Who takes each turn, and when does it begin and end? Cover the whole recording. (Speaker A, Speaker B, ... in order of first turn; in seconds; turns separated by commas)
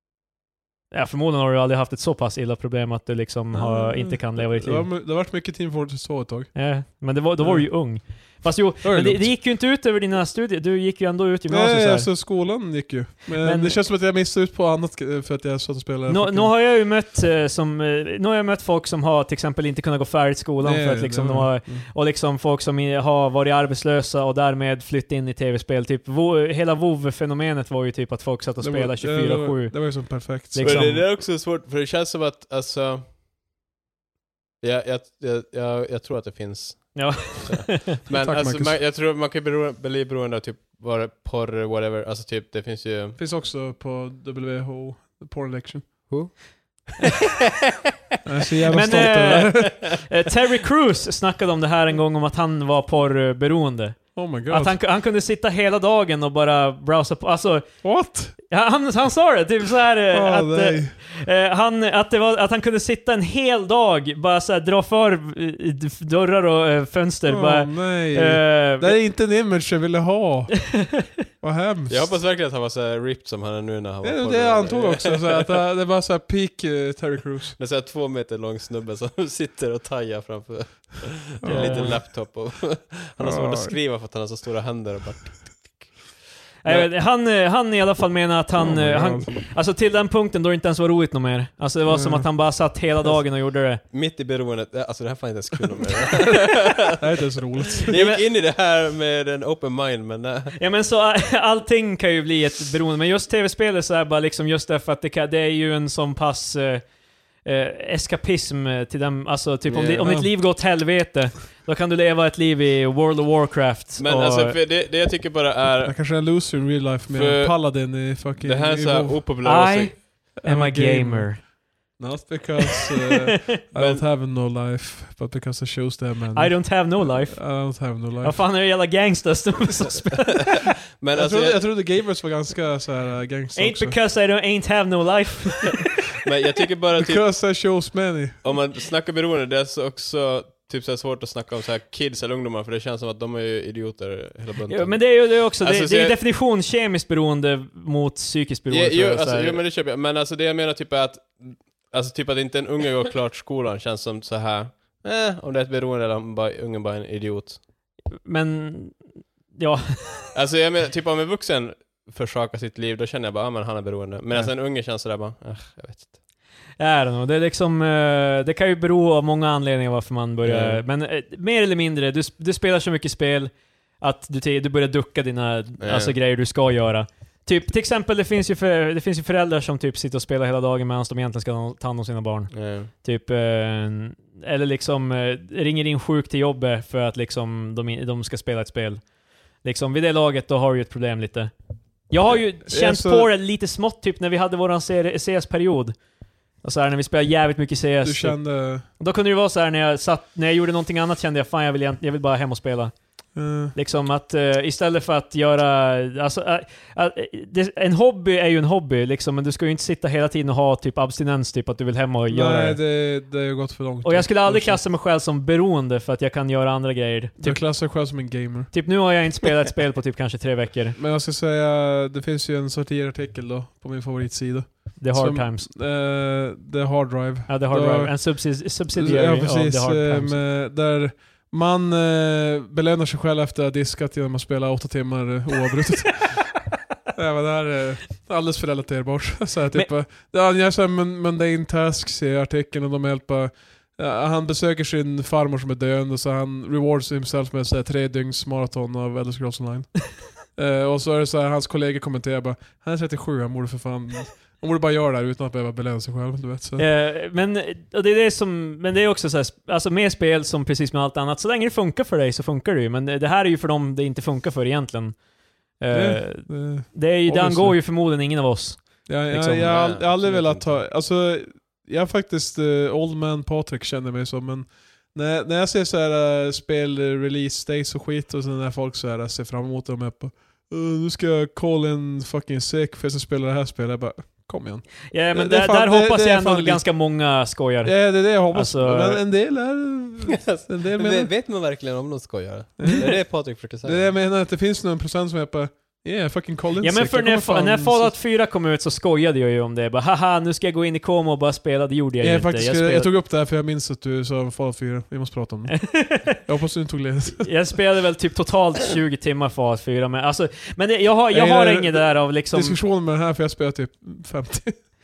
Speaker A: 0.9-4.9, Speaker B: 3.5-6.7, Speaker A: 6.5-12.1, Speaker B: 7.4-9.4, Speaker B: 11.5-16.5, Speaker A: 13.4-13.8, Speaker A: 16.1-31.1, Speaker B: 20.6-21.9, Speaker B: 28.6-31.0, Speaker C: 30.6-33.0, Speaker C: 34.6-43.2, Speaker A: 36.9-38.0, Speaker B: 38.1-38.8, Speaker B: 43.2-46.4, Speaker C: 46.1-47.3, Speaker B: 48.2-49.9, Speaker A: 48.7-57.8, Speaker B: 54.1-54.8, Speaker B: 57.8-58.4, Speaker A: 58.5-68.9, Speaker B: 60.1-61.0, Speaker B: 67.3-72.2, Speaker A: 70.7-71.0, Speaker C: 71.9-75.4, Speaker B: 74.0-77.6, Speaker C: 77.6-86.0, Speaker B: 81.4-82.1, Speaker A: 81.5-81.9, Speaker B: 83.2-83.8, Speaker A: 86.6-93.8, Speaker B: 88.6-89.3, Speaker B: 91.9-92.3, Speaker C: 93.9-97.0, Speaker B: 96.4-97.9, Speaker C: 97.8-100.5, Speaker A: 97.9-98.2, Speaker A: 100.5-106.8, Speaker A: 107.4-114.6, Speaker C: 109.7-110.1, Speaker B: 110.0-110.3, Speaker C: 114.0-116.1, Speaker B: 115.8-119.2, Speaker C: 117.1-120.0, Speaker A: 119.4-121.5, Speaker B: 120.4-128.4, Speaker C: 123.7-124.0, Speaker A: 126.3-130.7, Speaker C: 131.0-131.6, Speaker B: 131.1-134.0, Speaker A: 133.6-135.9, Speaker C: 136.2-137.3, Speaker B: 137.0-138.4, Speaker C: 138.4-146.2, Speaker A: 144.7-149.6, Speaker C: 148.7-157.6, Speaker A: 158.2-160.3, Speaker C: 160.3-166.2, Speaker A: 166.8-189.1, Speaker C: 170.4-170.8, Speaker C: 175.8-176.2, Speaker C: 182.5-182.9, Speaker A: 189.6-191.5, Speaker A: 192.1-196.0, Speaker B: 192.7-193.3, Speaker A: 196.6-202.9, Speaker B: 198.0-198.9, Speaker B: 203.3-203.7, Speaker A: 203.7-212.8, Speaker B: 212.3-214.8, Speaker A: 214.0-217.6, Speaker B: 217.4-218.7, Speaker A: 218.7-221.0, Speaker B: 220.9-236.6, Speaker A: 225.0-225.7, Speaker A: 227.5-230.4, Speaker B: 237.1-256.9, Speaker A: 256.8-265.2, Speaker A: 265.8-269.7, Speaker B: 265.9-267.8, Speaker B: 269.1-287.0, Speaker C: 269.6-270.8, Speaker A: 285.1-289.2, Speaker B: 287.8-291.3, Speaker C: 290.3-294.1, Speaker B: 292.8-293.3, Speaker B: 293.8-298.1, Speaker A: 296.8-303.1, Speaker B: 302.2-307.5, Speaker A: 305.7-306.4, Speaker A: 307.4-312.8, Speaker B: 311.3-314.8